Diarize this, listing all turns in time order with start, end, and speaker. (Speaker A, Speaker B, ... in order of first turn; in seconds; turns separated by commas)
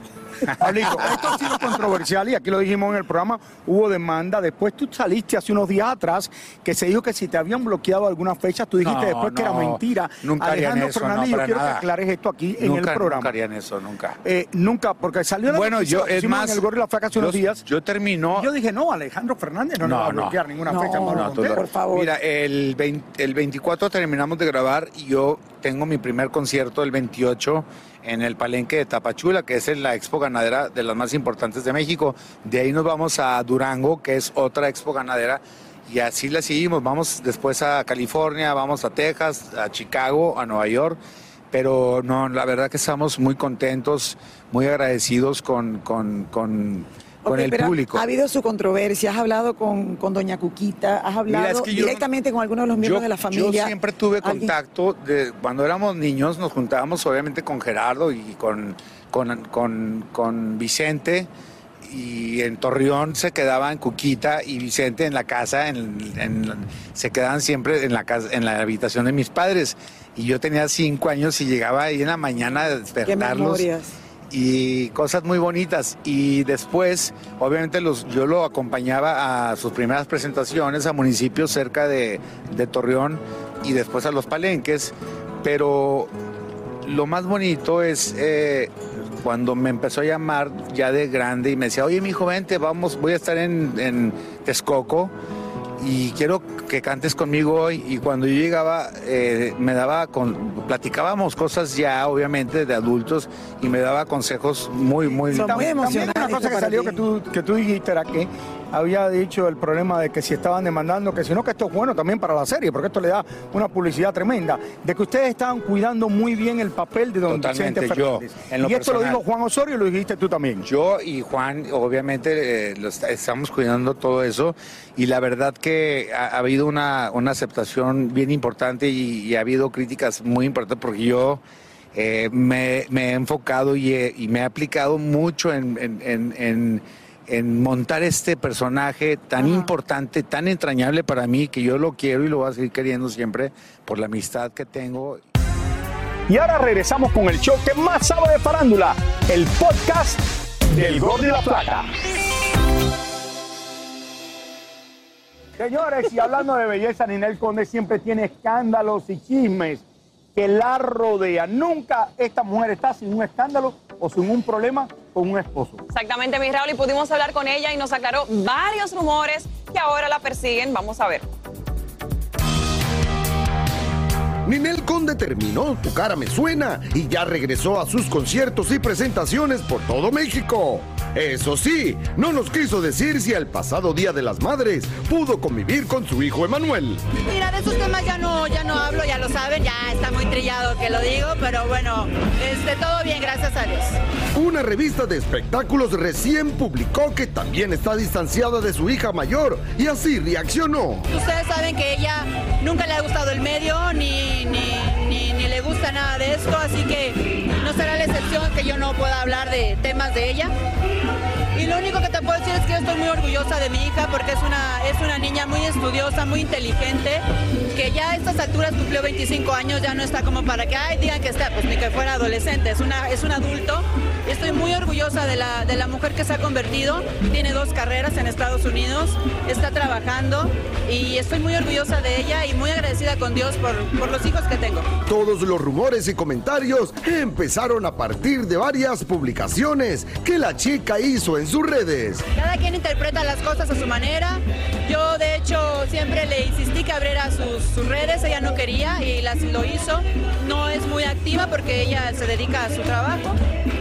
Speaker A: 0.5-1.4, Speaker B: 0.6-13.3, Speaker A: 8.8-11.9, Speaker A: 12.6-14.2, Speaker B: 14.2-17.6, Speaker A: 15.5-16.6, Speaker A: 17.2-18.5, Speaker B: 18.3-21.6, Speaker A: 19.8-20.5, Speaker C: 20.6-22.1, Speaker A: 21.0-41.0, Speaker A: 41.5-48.1, Speaker C: 47.3-54.5, Speaker A: 51.3-52.1, Speaker A: 52.8-61.3, Speaker A: 61.9-73.7, Speaker C: 73.1-73.9, Speaker A: 74.3-86.1, Speaker A: 86.8-88.7, Speaker A: 89.2-95.1, Speaker A: 95.8-105.9, Speaker C: 105.3-107.0, Speaker B: 105.3-120.7, Speaker A: 117.3-119.2, Speaker A: 120.6-131.4, Speaker A: 131.9-145.2, Speaker B: 146.3-151.9, Speaker B: 155.6-159.8, Speaker B: 160.3-165.8, Speaker D: 165.9-171.3, Speaker E: 174.5-187.0, Speaker F: 187.3-194.0, Speaker E: 194.4-201.1, Speaker F: 201.1-210.5, Speaker F: 211.6-217.2, Speaker F: 217.8-234.9, Speaker E: 235.1-242.2, Speaker F: 242.4-253.4